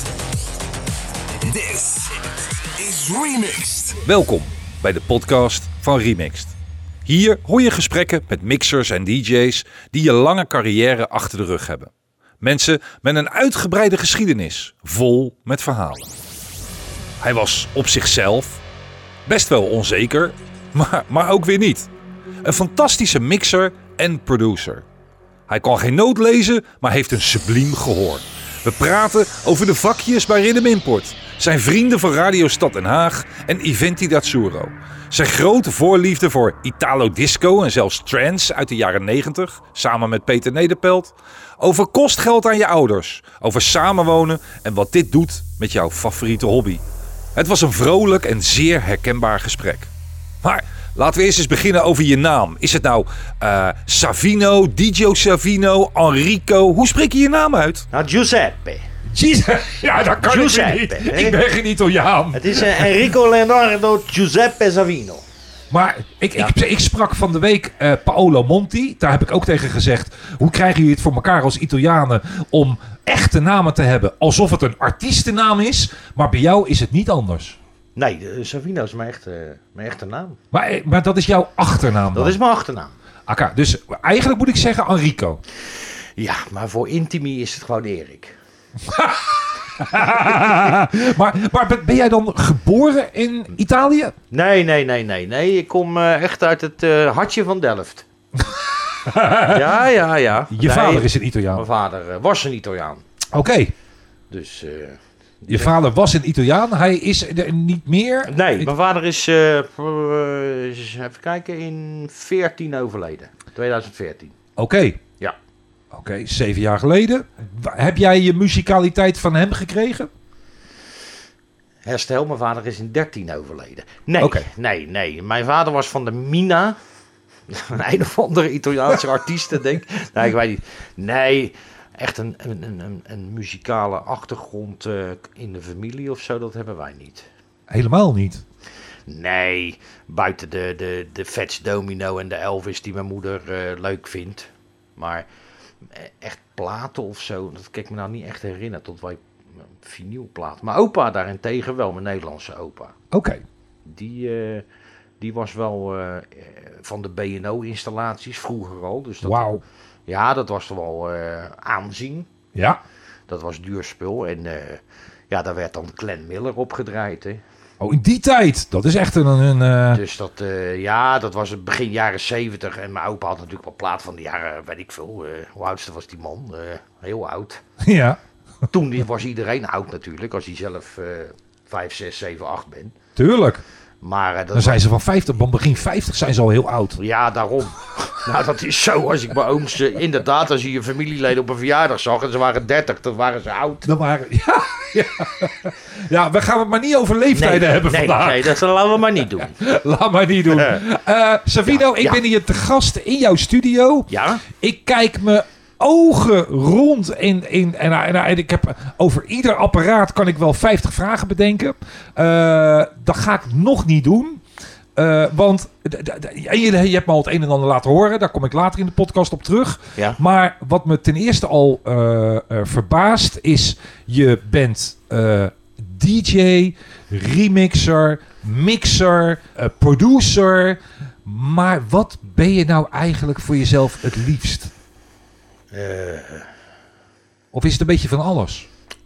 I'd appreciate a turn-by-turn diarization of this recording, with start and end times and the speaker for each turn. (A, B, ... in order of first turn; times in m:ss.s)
0:01.4-0:04.0 A
0:04.0-0:06.5 B
0:07.0-0:16.1 B
0:17.2-0:18.6 B
0:19.2-0:21.9 B
0:22.4-0:24.8 B
0:25.5-0:46.8 B
0:47.3-0:49.9 B
0:50.4-0:57.9 B
0:57.9-0:58.8 C
0:59.1-1:03.0 B
1:00.2-1:01.4 C
1:02.3-1:05.2 C
1:05.7-1:17.6 B
1:18.0-1:20.4 C
1:20.5-1:22.4 B
1:22.1-1:22.9 C
1:23.3-1:25.4 B
1:26.2-1:28.4 C
1:28.8-1:34.2 B
1:34.3-1:38.1 C
1:39.0-1:39.8 B
1:39.4-1:43.0 C
1:40.5-1:41.6 B
1:43.3-1:43.7 B
1:44.3-1:45.8 C
1:45.5-1:48.7 B
1:48.3-1:54.3 C
1:54.6-1:55.0 B
1:55.9-2:00.1 B
2:01.8-2:06.8 C
2:04.2-2:04.5 B
2:07.5-2:17.3 C
2:17.7-2:18.4 B
2:19.1-2:25.2 C
2:25.9-2:32.9 C
2:33.1-2:33.4 B
2:33.8-2:34.6 C
2:35.2-2:42.3 C
2:39.2-2:39.6 B
2:42.6-2:42.8 B
2:43.3-2:47.4 C
2:47.8-2:50.0 B
2:49.9-2:57.6 C
2:57.8-2:58.2 B
2:58.7-3:02.9 C
3:03.2-3:03.6 B
3:04.0-3:04.8 C
3:04.5-3:07.0 B
3:07.0-3:13.9 C
3:13.8-3:18.6 B
3:17.3-3:19.6 C
3:19.2-3:34.4 B
3:20.5-3:20.8 C
3:21.7-3:22.2 C
3:24.1-3:24.4 C
3:35.0-3:54.7 B
3:55.7-3:56.5 C
3:57.5-3:58.7 B